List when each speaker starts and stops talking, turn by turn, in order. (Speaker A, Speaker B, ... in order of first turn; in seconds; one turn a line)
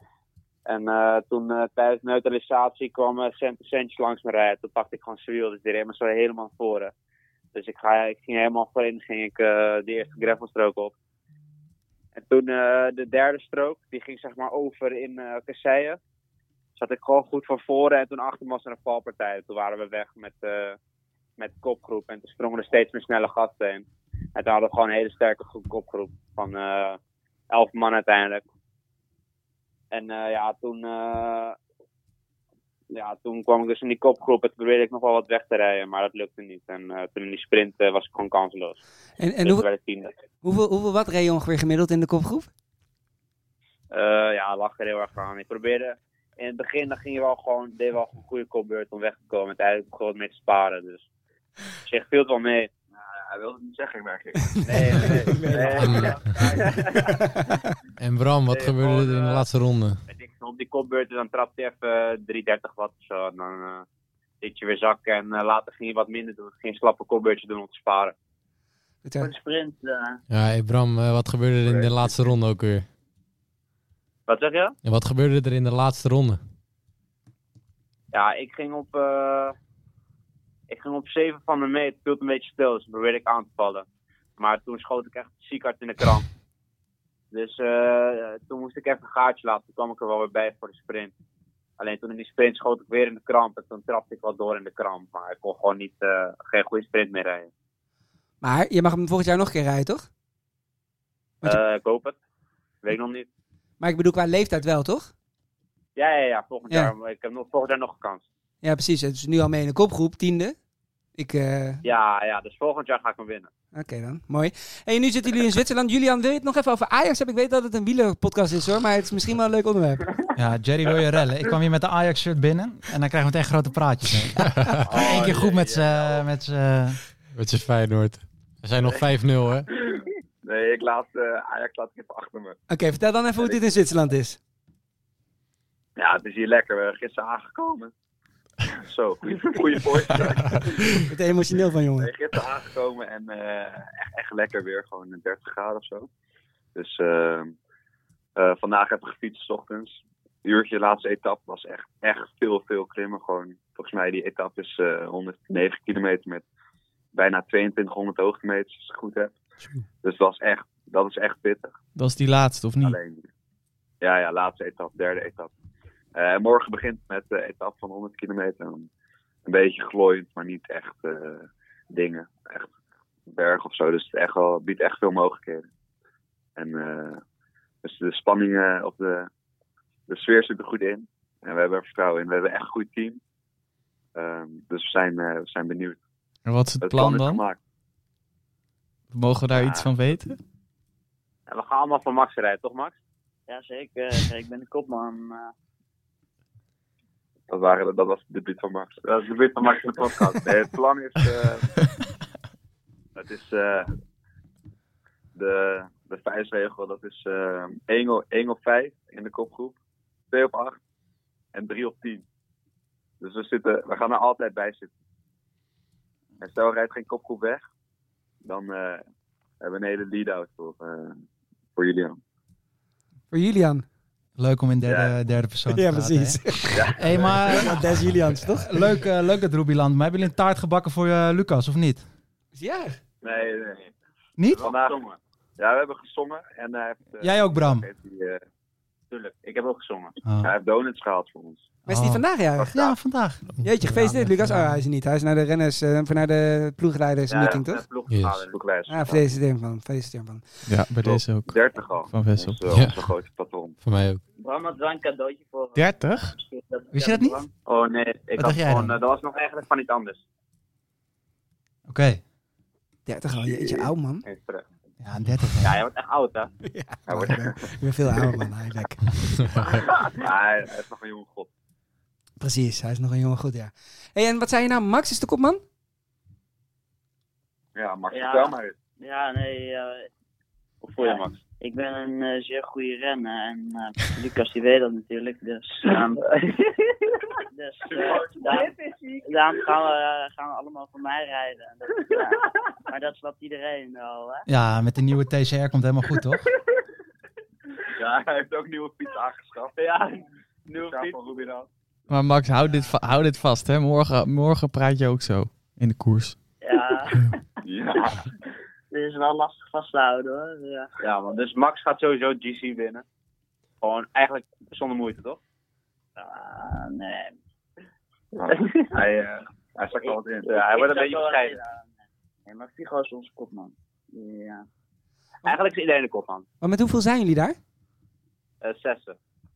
Speaker A: 0.7-6.9
Speaker A: 7.5-10.9
Speaker A: 12.1-16.0
Speaker A: 16.8-20.8
Speaker A: 21.4-23.8
Speaker A: 24.4-27.0
Speaker A: 27.5-28.4
Speaker A: 29.9-31.6
Speaker A: 32.9-38.8
Speaker B: 39.2-39.6
Speaker A: 39.4-40.1
Speaker B: 40.4-42.5
Speaker A: 43.9-51.0
Speaker A: 51.8-52.7
Speaker C: 53.0-56.8
Speaker B: 54.5-56.1
Speaker A: 54.6-57.1
Speaker D: 55.8-56.2
Speaker B: 57.0-57.6
Speaker D: 58.0-60.0
Speaker A: 58.5-59.4
Speaker A: 60.1-63.8
Speaker A: 64.4-68.1
Speaker B: 69.0-69.3
Speaker E: 69.2-70.2
Speaker D: 70.3-72.9
Speaker C: 71.6-71.9
Speaker A: 74.3-74.8
Speaker D: 74.8-76.4
Speaker A: 78.1-79.5
Speaker A: 80.7-83.8
Speaker A: 84.4-86.2
Speaker A: 87.3-91.1
Speaker A: 91.8-97.5
Speaker B: 98.4-100.1
Speaker A: 101.4-102.1
Speaker A: 102.8-103.2
Speaker B: 103.8-105.1
Speaker A: 106.0-108.2
Speaker B: 108.6-110.5
Speaker B: 111.2-111.8
Speaker A: 111.8-113.5
Speaker B: 113.7-120.1
Speaker F: 120.3-127.0
Speaker C: 124.9-125.6
Speaker A: 124.9-125.8
Speaker D: 127.3-129.7
Speaker C: 129.7-132.6
Speaker B: 132.7-134.4
Speaker C: 136.0-137.9
Speaker C: 138.7-141.0
Speaker B: 141.1-142.1
Speaker C: 142.0-146.1
Speaker C: 146.7-147.5
Speaker C: 148.4-156.4
Speaker C: 157.1-159.3
Speaker C: 160.0-161.7
Speaker G: 161.9-163.0
Speaker C: 162.8-163.3
Speaker C: 164.0-165.5
Speaker C: 166.2-168.9
Speaker C: 169.4-172.7
Speaker C: 173.3-175.6
Speaker C: 176.6-177.2
Speaker C: 177.8-179.3
Speaker C: 180.1-183.2
Speaker C: 184.2-186.0
Speaker G: 186.4-187.4
Speaker C: 186.8-187.6
Speaker G: 189.1-190.4
Speaker C: 189.5-189.9
Speaker A: 191.5-193.0
Speaker E: 193.5-195.5
Speaker C: 197.5-201.7
Speaker A: 199.2-200.4
Speaker C: 203.1-203.9
Speaker C: 205.3-209.8
Speaker C: 210.3-210.8
Speaker C: 211.5-212.2
Speaker C: 213.2-214.9
Speaker C: 216.4-217.6
Speaker C: 218.4-219.0
Speaker C: 219.6-221.2
Speaker C: 221.8-222.2
Speaker B: 223.3-223.8
Speaker F: 224.4-232.0
Speaker C: 224.8-225.1
Speaker B: 225.7-226.9
Speaker C: 226.7-227.6
Speaker B: 227.4-228.8
Speaker B: 232.6-233.0
Speaker C: 233.2-233.9
Speaker F: 234.4-234.6
Speaker A: 234.5-235.2
Speaker C: 234.6-235.0
Speaker C: 235.6-238.4
Speaker F: 237.2-237.9
Speaker A: 239.1-240.1
Speaker F: 240.2-240.5
Speaker C: 240.4-241.7
Speaker B: 241.8-242.9
Speaker G: 241.9-242.2
Speaker F: 242.7-243.4
Speaker D: 243.5-244.8
Speaker B: 243.6-247.8
Speaker A: 247.3-248.6
Speaker D: 248.1-248.5
Speaker C: 248.5-249.2
Speaker B: 248.9-250.4
Speaker G: 250.7-252.6
Speaker C: 251.0-253.8
Speaker D: 252.7-253.0
Speaker D: 253.8-254.2
Speaker E: 254.4-257.5
Speaker G: 255.7-256.3
Speaker F: 256.9-257.4
Speaker A: 257.6-260.2
Speaker F: 258.4-259.0
Speaker F: 261.9-262.2
Speaker B: 263.1-264.2
Speaker A: 264.2-264.6
Speaker F: 265.0-265.8
Speaker A: 265.6-266.5
Speaker B: 266.6-269.2
Speaker C: 267.1-267.7
Speaker C: 269.7-271.5
Speaker B: 272.4-275.6
Speaker C: 277.8-278.7
Speaker E: 278.1-280.1
Speaker A: 280.8-281.4
Speaker E: 281.0-286.2
Speaker E: 287.5-294.4
Speaker C: 287.9-288.7
Speaker F: 294.5-296.5
Speaker C: 298.0-299.8
Speaker A: 299.8-301.2
Speaker C: 300.8-301.7
Speaker G: 302.1-306.4
Speaker E: 306.6-307.3
Speaker C: 307.6-308.3
Speaker E: 308.9-310.9
Speaker A: 311.0-313.0
Speaker A: 313.8-315.4
Speaker E: 316.2-317.3
Speaker C: 318.3-320.6
Speaker A: 320.0-321.6
Speaker E: 320.7-321.8
Speaker E: 322.5-324.6
Speaker A: 325.4-326.4
Speaker B: 326.6-327.6
Speaker A: 328.6-329.1